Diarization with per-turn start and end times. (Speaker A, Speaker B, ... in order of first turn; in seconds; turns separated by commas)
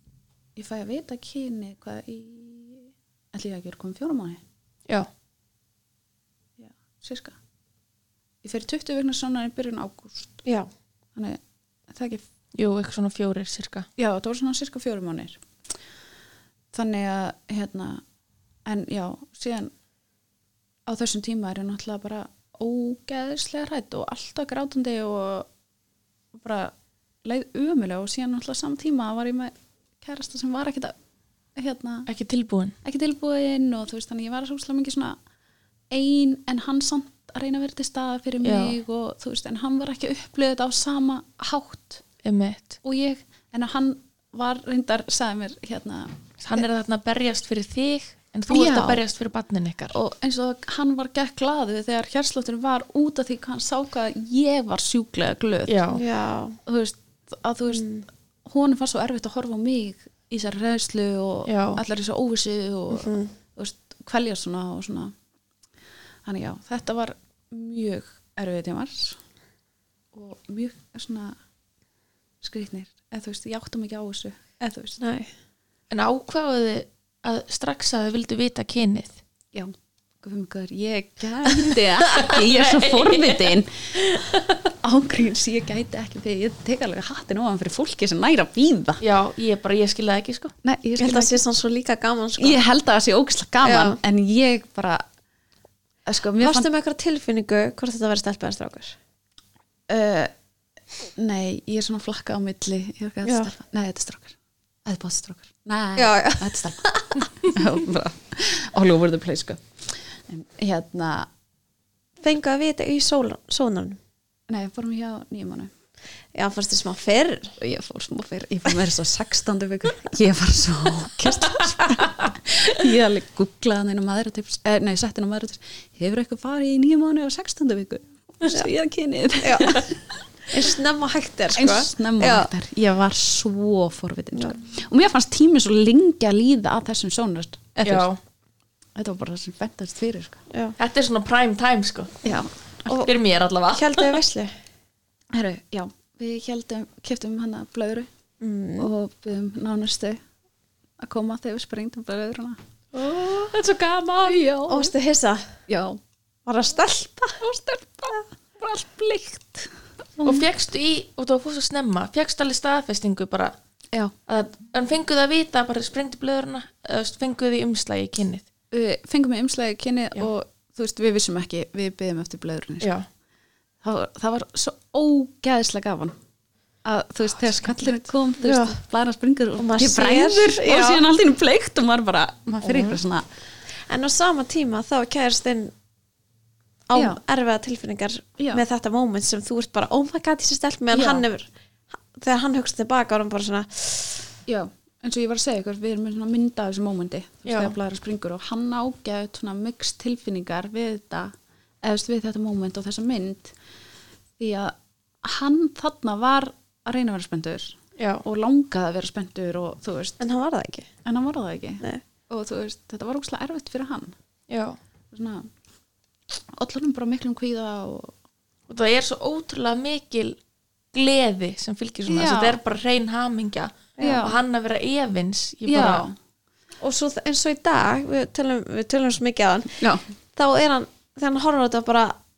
Speaker A: 0.6-4.4, Speaker A: 6.6-7.3, Speaker A: 8.4-10.4, Speaker B: 10.4-10.7, Speaker A: 11.2-12.2, Speaker C: 12.5-13.9, Speaker A: 14.0-15.4, Speaker A: 16.7-18.0, Speaker A: 18.6-19.7, Speaker A: 20.9-25.5, Speaker A: 26.3-30.9, Speaker A: 31.5-32.1, Speaker C: 32.1-32.7, Speaker A: 32.8-35.2, Speaker A: 35.9-42.0, Speaker C: 38.4-38.8, Speaker C: 42.2-42.8, Speaker A: 42.8-46.6, Speaker C: 46.4-50.0, Speaker A: 48.5-49.0, Speaker A: 49.9-55.9, Speaker C: 55.7-56.0, Speaker B: 55.9-56.6, Speaker A: 56.6-57.9, Speaker B: 57.7-58.0, Speaker A: 58.4-65.1, Speaker C: 61.5-61.8, Speaker B: 62.9-63.3, Speaker A: 66.2-69.2, Speaker A: 70.1-71.4, Speaker A: 72.4-75.0, Speaker B: 75.0-75.3, Speaker C: 75.9-79.2, Speaker A: 79.5-83.7, Speaker C: 82.0-84.5, Speaker A: 84.8-89.0, Speaker C: 89.0-90.5, Speaker A: 90.6-91.4, Speaker B: 91.0-92.6, Speaker A: 92.4-95.0, Speaker B: 93.6-94.0, Speaker A: 96.0-96.7, Speaker B: 96.4-99.0, Speaker A: 99.9-100.3, Speaker A: 101.1-109.6, Speaker B: 103.2-103.5, Speaker B: 106.0-107.2, Speaker A: 110.3-111.3, Speaker B: 112.2-114.0, Speaker A: 114.5-115.7, Speaker B: 116.3-117.6, Speaker A: 117.6-130.0, Speaker B: 129.4-129.8, Speaker B: 130.5-132.5, Speaker A: 131.5-138.1, Speaker C: 137.8-138.2, Speaker A: 138.9-140.4, Speaker C: 140.8-142.2, Speaker A: 142.2-143.1, Speaker C: 142.9-144.2, Speaker B: 143.7-144.5, Speaker A: 145.3-148.1, Speaker B: 148.4-148.9, Speaker A: 148.8-150.2, Speaker A: 151.0-154.9, Speaker B: 154.7-155.6, Speaker A: 155.7-156.0, Speaker B: 156.4-157.4, Speaker A: 157.4-160.5, Speaker C: 160.2-163.5, Speaker C: 164.3-168.4, Speaker A: 168.7-172.9, Speaker C: 172.8-173.1, Speaker A: 173.8-176.2, Speaker A: 176.8-183.2, Speaker B: 178.5-178.7, Speaker B: 179.6-181.0, Speaker C: 182.6-182.9, Speaker B: 183.9-185.7, Speaker B: 186.9-191.5, Speaker A: 186.9-187.2, Speaker A: 190.9-191.2, Speaker B: 192.1-194.2, Speaker A: 194.5-203.5, Speaker C: 197.4-197.7, Speaker A: 204.4-210.2, Speaker C: 208.0-208.2, Speaker B: 210.2-210.9, Speaker A: 211.0-214.1, Speaker C: 214.5-214.8, Speaker A: 215.1-215.5, Speaker A: 216.5-218.1, Speaker C: 218.7-220.4, Speaker C: 220.9-226.0, Speaker A: 222.1-222.6, Speaker B: 224.0-224.2, Speaker A: 224.0-224.4, Speaker A: 225.7-226.2, Speaker B: 226.8-232.2, Speaker A: 229.8-230.0